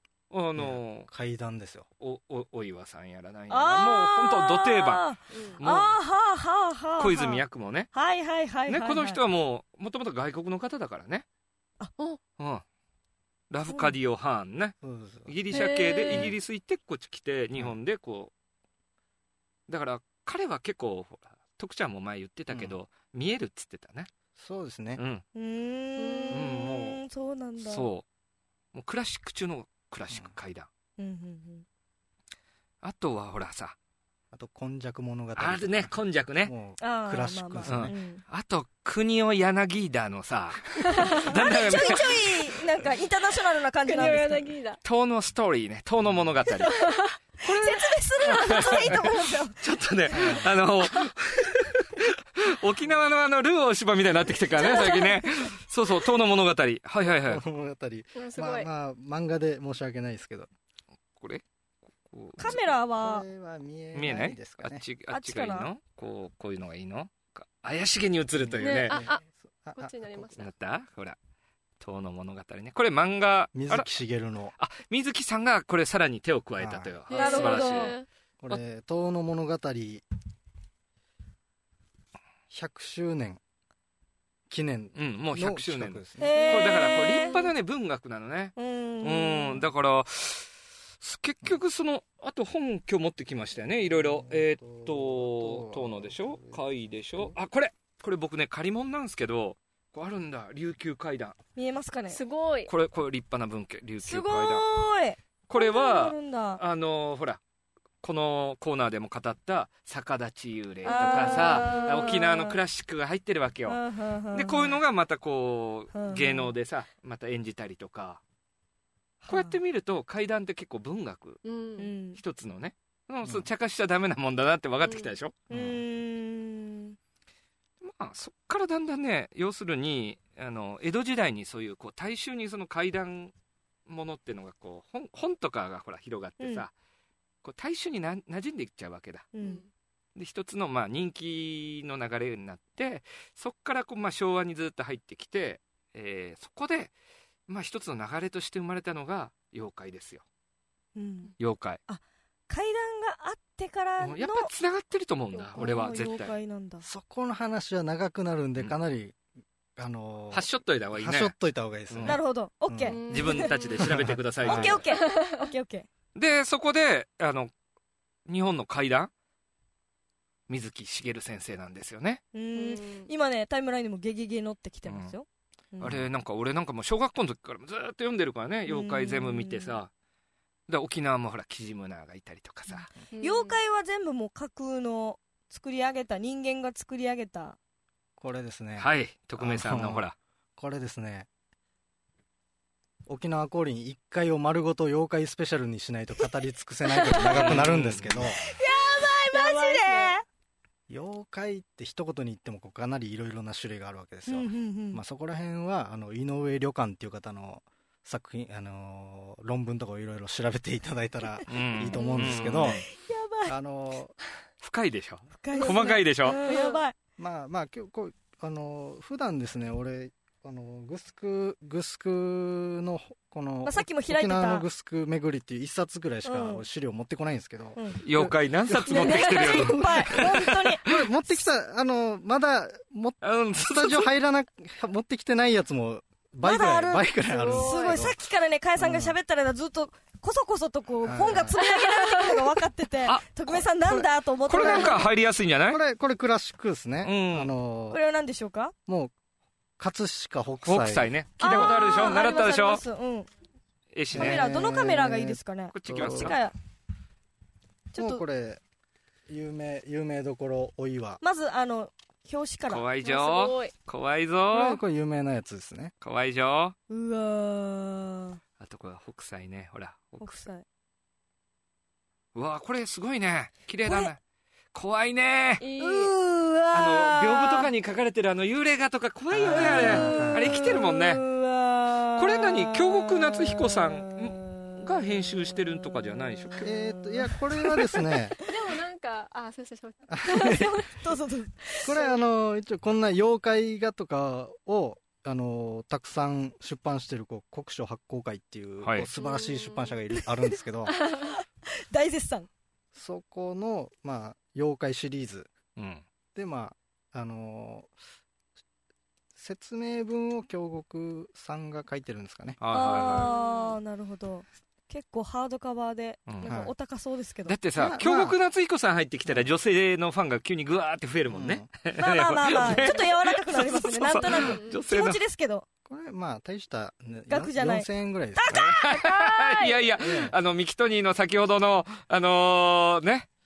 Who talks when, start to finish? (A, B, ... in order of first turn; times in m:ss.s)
0:00.3-0:01.1 A
0:00.6-0:01.9 B
0:02.0-0:05.1 A
0:03.5-0:09.2 C
0:05.3-0:05.6 D
0:05.6-0:06.0 A
0:07.0-0:07.9 A
0:08.7-0:11.2 A
0:12.4-0:12.6 A
0:13.5-0:18.3 A
0:14.8-0:15.3 B
0:15.5-0:16.3 D
0:19.7-0:24.1 A
0:22.5-0:22.8 B
0:24.4-0:25.0 B
0:25.0-0:25.2 A
0:25.4-0:27.9 C
0:26.0-0:26.5 D
0:26.3-0:27.0 A
0:27.6-0:28.0 A
0:28.7-0:30.7 A
0:31.0-0:31.6 C
0:32.8-0:33.8 A
0:34.3-0:37.9 B
0:35.4-0:36.5 A
0:36.8-0:38.2 C
0:37.7-0:42.4 A
0:41.3-0:44.5 C
0:43.8-0:44.8 D
0:44.8-0:46.7 A
0:46.7-0:47.2 D
0:47.4-0:49.6 C
0:47.4-0:57.4 A
0:50.1-0:50.5 B
0:54.7-0:55.2 C
0:57.1-1:00.5 B
0:58.2-0:58.7 D
1:02.1-1:02.7 A
1:02.4-1:03.2 C
1:02.5-1:04.8 B
1:03.9-1:09.0 A
1:05.1-1:05.7 C
1:08.4-1:10.3 B
1:08.6-1:09.2 D
1:09.8-1:10.5 D
1:10.4-1:11.2 A
1:11.8-1:13.9 A
1:13.5-1:14.5 B
1:14.6-1:18.0 A
1:16.6-1:17.0 B
1:17.1-1:18.1 D
1:17.1-1:17.9 C
1:18.4-1:20.0 B
1:22.5-1:23.4 B
1:24.5-1:26.4 B
1:25.0-1:30.5 A
1:26.2-1:27.4 C
1:26.3-1:27.5 D
1:28.6-1:29.6 C
1:31.0-1:41.4 A
1:33.9-1:36.6 B
1:41.6-1:42.2 C
1:42.1-1:42.7 D
1:42.7-1:44.7 A
1:44.0-1:46.6 C
1:45.5-1:47.4 A
1:48.0-1:53.8 A
1:50.8-1:52.6 C
1:50.9-1:52.2 D
1:53.7-1:54.8 C
1:54.3-1:58.2 A
1:55.9-1:56.5 C
1:59.2-2:01.4 A
1:59.3-1:59.6 C
2:01.4-2:01.9 D
2:01.8-2:02.2 C
2:02.2-2:05.4 A
2:04.8-2:05.1 D
2:05.5-2:07.0 C
2:05.5-2:05.8 B
2:07.8-2:13.3 A
2:13.9-2:16.7 A
2:16.4-2:16.7 C
2:17.4-2:19.3 A
2:19.4-2:19.6 C
2:19.4-2:19.7 D
2:20.2-2:26.9 A
2:27.5-2:30.2 A
2:31.0-2:31.3 C
2:31.4-2:31.8 A
2:31.9-2:34.5 C
2:34.0-2:36.3 A
2:35.3-2:36.0 D
2:35.6-2:36.8 C
2:36.8-2:39.2 B
2:39.8-2:43.0 B
2:40.3-2:41.3 A
2:41.9-2:42.2 A
2:42.1-2:43.5 C
2:42.9-2:43.9 D
2:43.1-2:44.8 A
2:43.8-2:44.8 B
2:44.4-2:45.9 C
2:45.2-2:45.4 D
2:46.2-2:47.5 A
2:48.3-2:49.1 A
2:50.5-2:52.2 A
2:52.3-2:56.0 C
2:52.5-2:53.1 D
2:54.9-2:55.1 A
2:55.8-2:59.9 A
2:58.7-2:59.8 C
3:00.7-3:02.9 A
3:03.1-3:03.6 D
3:03.2-3:07.6 C
3:08.2-3:11.3 B
3:08.8-3:10.2 A
3:13.1-3:18.4 B
3:17.0-3:17.5 D
3:17.4-3:18.3 A
3:18.4-3:20.2 C
3:19.3-3:20.2 D
3:20.9-3:32.9 B
3:24.3-3:25.0 C
3:31.5-3:32.8 A
3:32.0-3:33.5 C
3:33.5-3:34.1 B
3:34.6-3:36.4 A
3:35.4-3:37.0 C
3:36.5-3:36.8 D
3:37.2-3:50.2 B
3:43.6-3:44.6 C
3:46.2-3:46.6 C
3:48.0-3:51.0 A
3:48.9-3:50.8 C
3:48.9-3:49.6 D
3:50.9-3:58.2 B
3:53.2-3:54.1 A
3:56.4-4:05.0 C
3:57.3-3:58.0 D
3:58.8-3:59.2 B
4:01.0-4:01.6 B
4:01.8-4:02.3 D
4:03.0-4:03.6 A
4:03.8-4:05.0 B
4:04.5-4:05.8 A
4:05.7-4:08.0 B
4:07.0-4:07.5 A
4:07.9-4:08.7 C
4:08.9-4:09.1 B
4:09.8-4:11.8 B
4:10.6-4:12.8 A
4:11.4-4:13.3 C
4:13.9-4:14.5 A
4:14.1-4:16.4 B
4:14.2-4:16.6 C
4:15.7-4:16.4 A
4:17.9-4:18.2 C
4:18.0-4:18.6 B
4:19.3-4:21.2 B
4:21.2-4:22.8 C
4:22.7-4:24.8 A
4:23.0-4:23.7 D
4:24.5-4:25.9 B
4:26.0-4:26.8 A
4:26.9-4:28.4 C
4:28.6-4:30.4 A
4:30.2-4:30.6 C
4:32.4-4:34.2 A
4:33.8-4:34.1 C
4:34.7-4:35.6 A
4:35.6-4:36.1 D
4:35.8-4:37.7 C
4:36.7-4:41.2 A
4:39.3-4:40.8 B
4:39.5-4:44.8 C
4:42.2-4:46.7 A
4:45.4-4:48.0 C
4:46.6-4:48.4 B
4:48.5-4:50.8 D
4:50.2-4:50.7 B
4:50.3-4:51.9 C
4:51.8-5:01.0 B
4:58.8-4:59.1 A
4:59.2-5:00.0 D
5:01.0-5:01.3 D
5:01.9-5:02.5 C
5:03.0-5:05.5 B
5:05.8-5:06.0 A
5:06.4-5:07.9 B
5:09.4-5:12.6 B
5:12.6-5:13.3 A
5:12.7-5:17.6 C
5:13.0-5:13.8 D
5:16.3-5:16.5 A
5:16.5-5:16.7 B
5:17.5-5:25.2 A
5:17.8-5:18.4 B
5:21.3-5:21.7 B
5:22.0-5:25.7 C
5:24.2-5:24.8 D
5:25.9-5:28.7 B
5:27.3-5:28.9 C
5:28.5-5:33.3 A
5:29.0-5:29.9 D
5:30.0-5:30.3 B